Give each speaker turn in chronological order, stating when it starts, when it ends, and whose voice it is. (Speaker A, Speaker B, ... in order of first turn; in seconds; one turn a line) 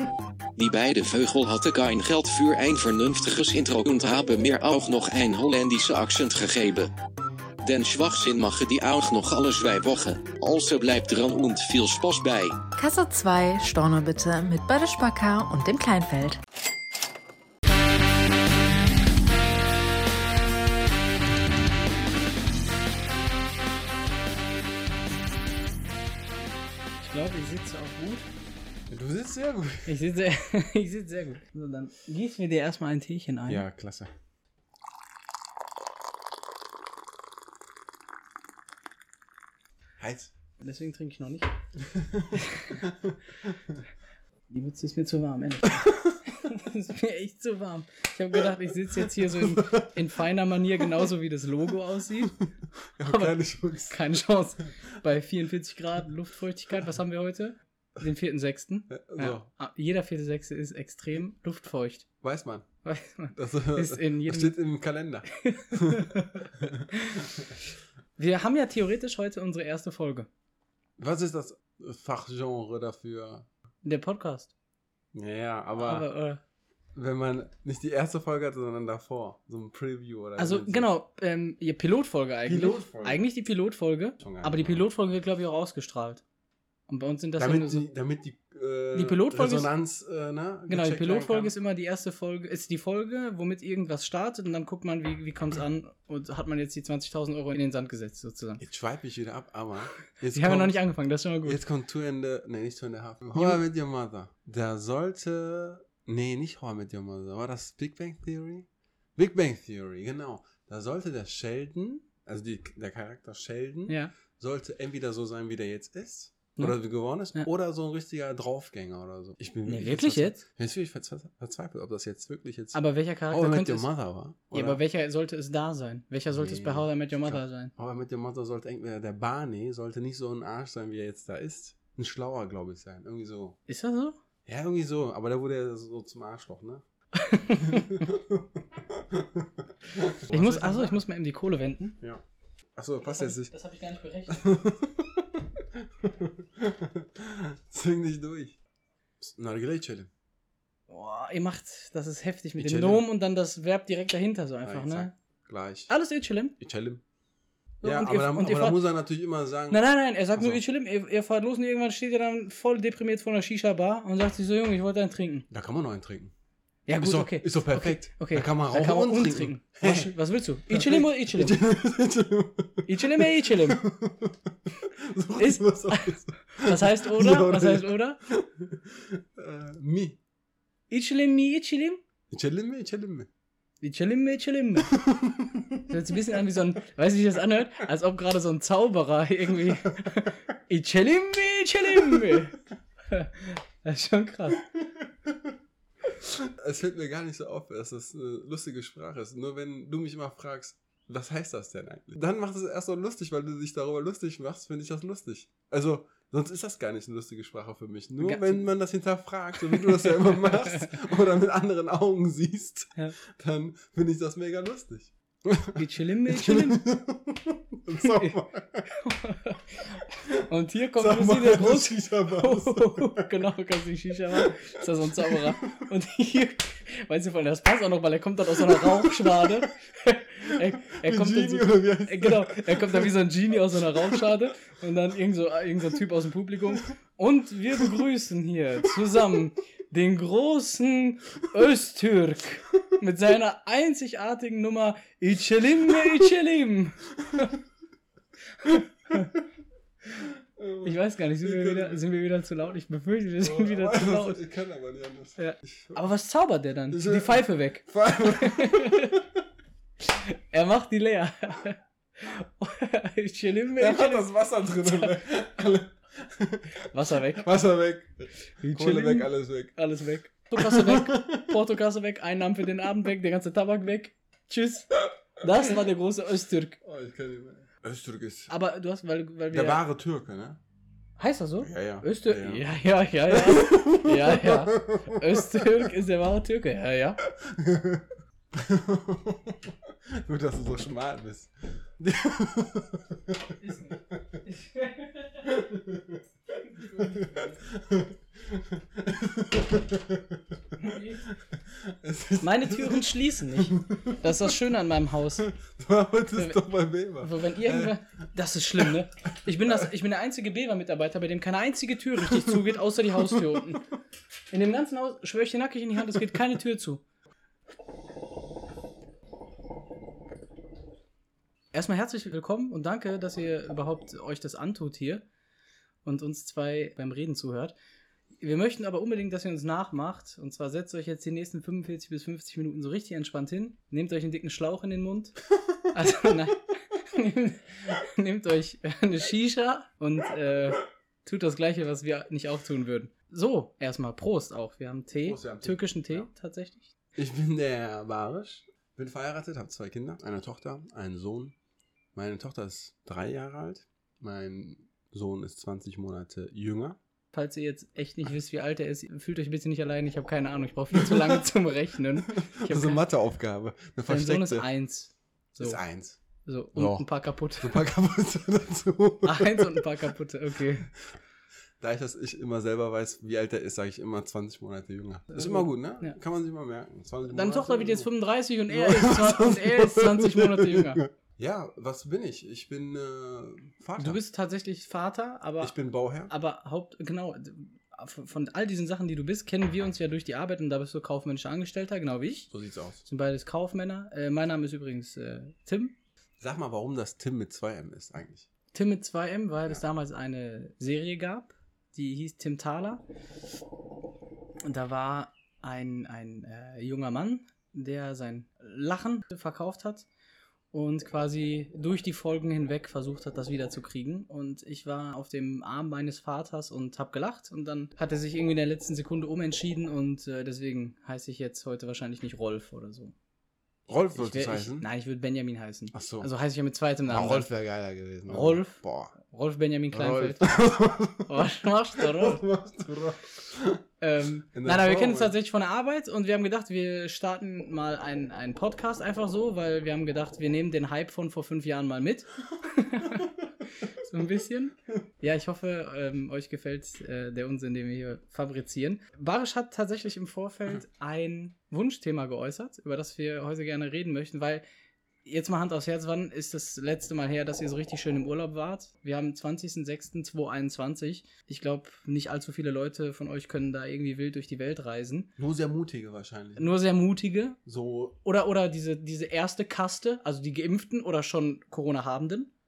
Speaker A: 0.6-6.9
Speaker A: 7.6-12.6
Speaker B: 12.8-16.4
Speaker C: 27.0-28.3
Speaker D: 28.9-30.0
Speaker C: 29.9-33.6
Speaker D: 33.5-34.1
Speaker D: 40.0-40.3
Speaker C: 40.6-41.5
Speaker D: 41.8-43.8
Speaker C: 42.3-42.8
Speaker C: 44.5-52.4
Speaker D: 49.2-49.9
Speaker D: 53.0-54.0
Speaker C: 53.0-53.3
Speaker C: 53.9-62.0
Speaker D: 58.9-59.5
Speaker D: 62.2-62.7
Speaker C: 62.8-64.5
Speaker D: 63.3-67.5
Speaker C: 65.4-67.2
Speaker C: 68.2-70.3
Speaker D: 71.0-73.5
Speaker C: 73.8-74.5
Speaker D: 75.1-76.1
Speaker C: 75.8-76.4
Speaker D: 76.9-80.9
Speaker C: 80.4-86.2
Speaker D: 82.4-83.2
Speaker D: 84.2-84.8
Speaker C: 86.9-87.8
Speaker D: 87.4-91.5
Speaker C: 88.9-89.7
Speaker C: 90.7-98.6
Speaker D: 98.6-100.8
Speaker C: 100.3-101.6
Speaker D: 101.4-124.8
Speaker C: 103.3-103.6
Speaker C: 113.9-114.1
Speaker C: 119.7-120.4
Speaker C: 122.7-123.9
Speaker C: 124.5-127.7
Speaker D: 126.3-133.6
Speaker C: 133.7-134.2
Speaker D: 134.4-136.8
Speaker C: 137.2-138.0
Speaker D: 137.5-141.0
Speaker C: 140.3-142.0
Speaker D: 142.8-143.5
Speaker C: 143.0-144.5
Speaker D: 144.3-148.6
Speaker D: 149.2-150.1
Speaker C: 150.9-155.1
Speaker D: 152.6-153.0
Speaker D: 154.6-155.9
Speaker C: 155.9-156.6
Speaker D: 156.6-157.0
Speaker C: 157.8-158.8
Speaker D: 157.8-159.8
Speaker C: 159.7-165.5
Speaker D: 160.3-160.6
Speaker D: 165.5-166.3
Speaker C: 166.9-171.6
Speaker D: 167.0-170.1
Speaker D: 170.7-180.2
Speaker C: 172.8-173.8
Speaker C: 175.4-178.2
Speaker C: 180.9-182.0
Speaker D: 182.3-183.3
Speaker C: 183.8-184.9
Speaker D: 184.9-185.9
Speaker C: 185.9-194.6
Speaker D: 192.0-192.3
Speaker D: 196.2-218.9
Speaker C: 208.2-208.7
Speaker C: 209.6-210.9
Speaker C: 215.8-216.8
Speaker C: 218.0-218.4
Speaker C: 218.9-247.5
Speaker D: 220.9-223.3
Speaker D: 224.3-225.8
Speaker D: 228.7-229.7
Speaker D: 230.4-233.2
Speaker D: 233.8-234.3
Speaker C: 248.6-249.3
Speaker D: 250.2-252.0
Speaker C: 250.8-254.4
Speaker D: 253.4-256.0
Speaker C: 255.4-259.2
Speaker D: 256.9-259.3
Speaker C: 260.0-264.3
Speaker D: 263.8-269.8
Speaker C: 264.8-265.1
Speaker C: 266.9-267.5
Speaker C: 268.6-276.8
Speaker D: 270.6-271.6
Speaker D: 276.8-278.5
Speaker C: 278.5-279.8
Speaker D: 279.5-280.6
Speaker C: 281.2-287.2
Speaker D: 281.6-282.7
Speaker D: 283.3-285.9
Speaker D: 287.4-294.4
Speaker C: 293.6-295.6
Speaker D: 295.4-296.2
Speaker C: 296.7-297.6
Speaker D: 296.8-304.6
Speaker C: 300.8-301.2
Speaker C: 302.4-305.4
Speaker D: 305.4-308.2
Speaker C: 306.4-306.6
Speaker C: 307.2-313.9
Speaker D: 312.2-312.7
Speaker C: 314.5-317.0
Speaker C: 321.7-325.3
Speaker C: 326.1-327.8
Speaker C: 328.4-335.4
Speaker C: 335.9-346.9
Speaker D: 345.2-346.3
Speaker D: 347.1-351.6
Speaker D: 352.1-357.0
Speaker C: 357.3-363.0
Speaker D: 360.9-361.4
Speaker D: 362.2-364.7
Speaker C: 364.1-365.8
Speaker D: 365.6-366.2
Speaker C: 366.4-367.8
Speaker D: 366.7-369.9
Speaker C: 369.2-370.9
Speaker D: 371.8-378.1
Speaker C: 375.3-376.2
Speaker C: 377.3-381.0
Speaker D: 378.7-384.2
Speaker C: 384.0-385.7
Speaker D: 385.6-386.3
Speaker C: 386.3-392.5
Speaker D: 392.5-393.0
Speaker C: 393.1-395.9
Speaker D: 396.4-398.5
Speaker C: 398.7-403.0
Speaker C: 404.6-410.1
Speaker C: 410.7-423.1
Speaker D: 423.9-424.9
Speaker C: 424.1-427.5
Speaker D: 425.9-426.3
Speaker D: 427.1-429.2
Speaker C: 428.3-432.5
Speaker D: 429.9-431.4
Speaker D: 432.0-433.8
Speaker C: 434.0-443.3
Speaker D: 434.5-435.3
Speaker C: 443.9-454.6
Speaker C: 455.2-465.3
Speaker D: 465.4-466.7
Speaker C: 466.6-467.6
Speaker D: 467.6-468.2
Speaker C: 468.2-472.5